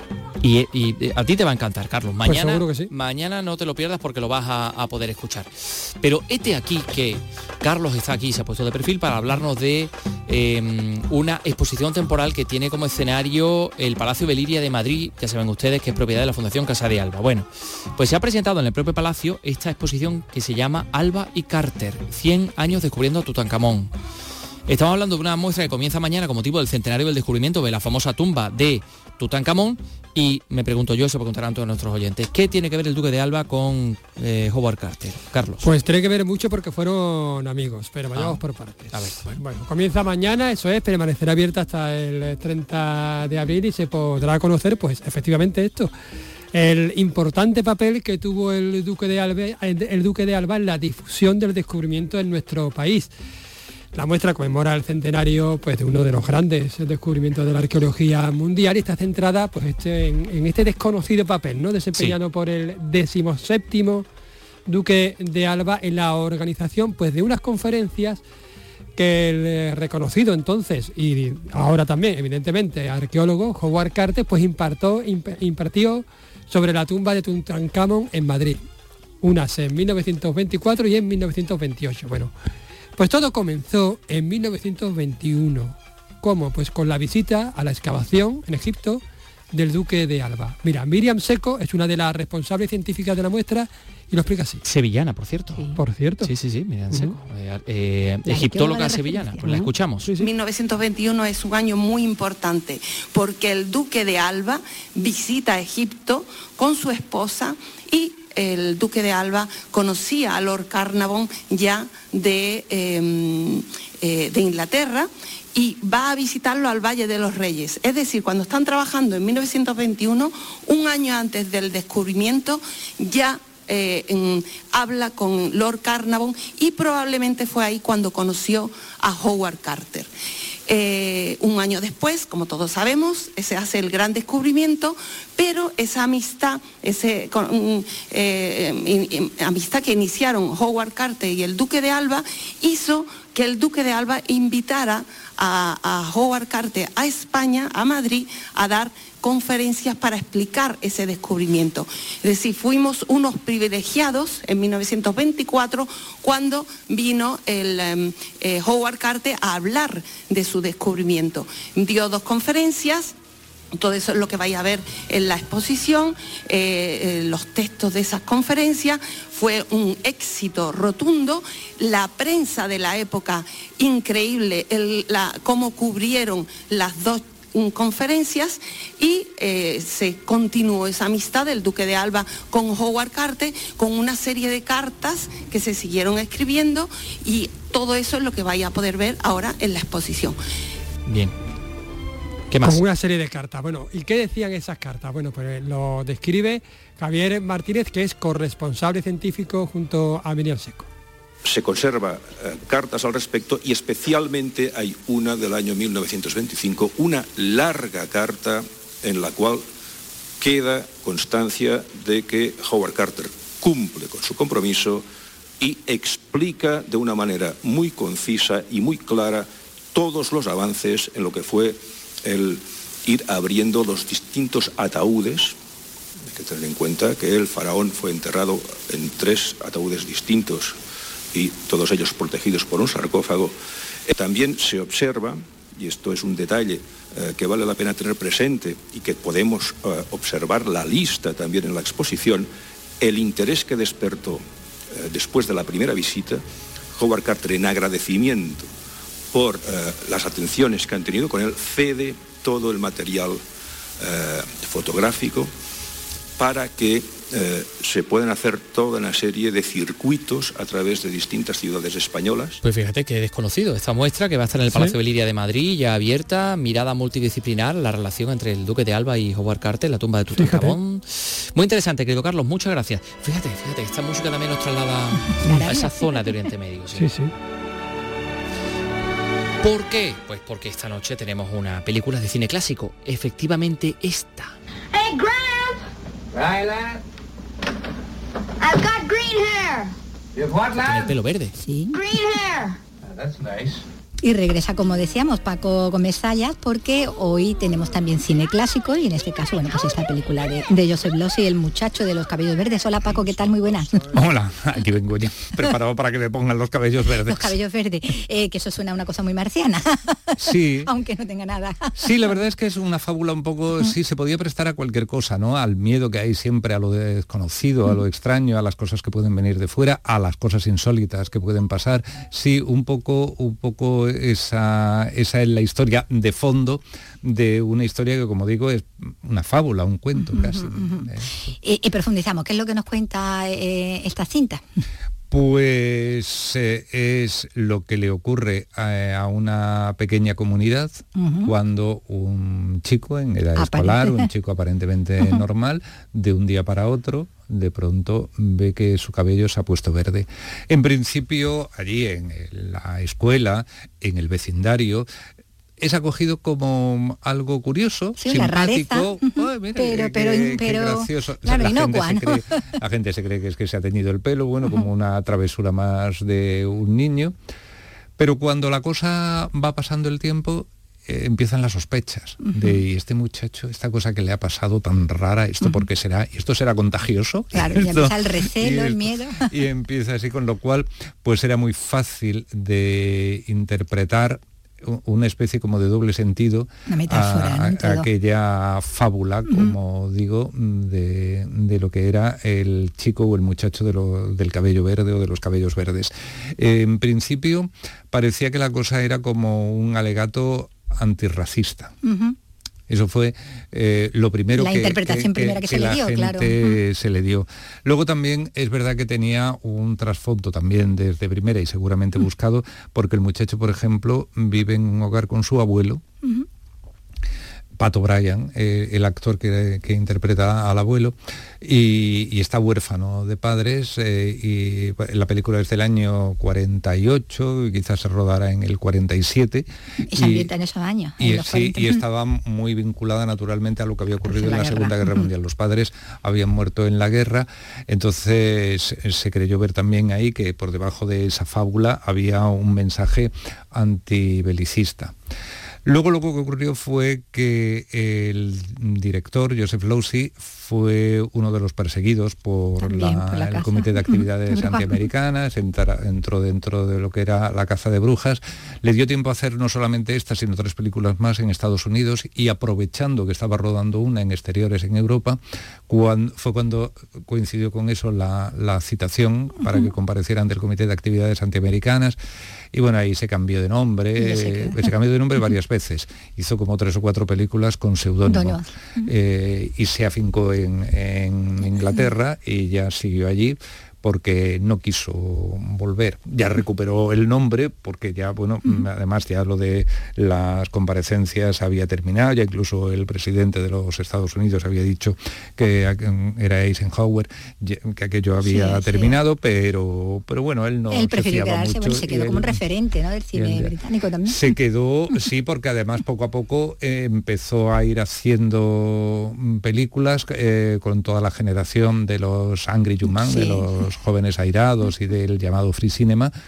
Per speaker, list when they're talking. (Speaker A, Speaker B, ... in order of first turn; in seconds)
Speaker A: 0.4-23.9, 24.7-35.6, 38.1-39.4, 94.6-100.1, 191.1-191.3, 192.5-192.8, 262.6-277.1, 279.6-284.5, 290.6-291.6
Speaker B: 2.2-2.9, 35.6-45.9, 46.5-53.1, 53.9-64.0, 64.7-68.2, 69.0-78.6, 79.2-82.3, 83.0-94.6, 95.7-96.3, 99.4-100.3, 192.6-200.9, 264.7-264.9, 270.3-270.8, 276.9-277.3
Speaker C: 98.2-99.5, 275.4-276.4, 291.6-292.1, 294.2-304.1, 307.2-312.0, 330.2-331.1, 331.6-334.6, 341.1-341.5, 343.6-344.3, 358.2-362.6, 372.4-372.8, 377.5-379.5, 386.9-388.1, 402.0-402.3, 404.6-406.8, 430.0-432.0, 434.3-435.2, 452.8-455.0, 474.2-474.8, 478.3-479.1, 481.8-482.0, 498.4-499.1, 500.9-504.4, 513.1-513.6
Speaker D: 100.2-130.1, 130.7-163.1, 163.8-190.4
Speaker E: 201.4-209.6, 210.4-215.1, 215.6-225.6, 226.2-230.8, 231.3-233.6, 234.1-246.4, 246.9-248.7, 249.3-253.4, 254.0-255.5, 256.4-262.6
Speaker F: 285.0-285.7, 288.6-289.8, 292.1-292.6
Speaker G: 293.2-293.6, 304.1-307.5, 310.4-310.9, 312.0-331.5, 335.3-355.1, 355.8-367.3, 368.2-401.9, 402.9-416.0, 417.8-430.5, 431.2-445.1, 445.8-472.2, 472.7-502.6, 503.3-503.7, 504.2-516.3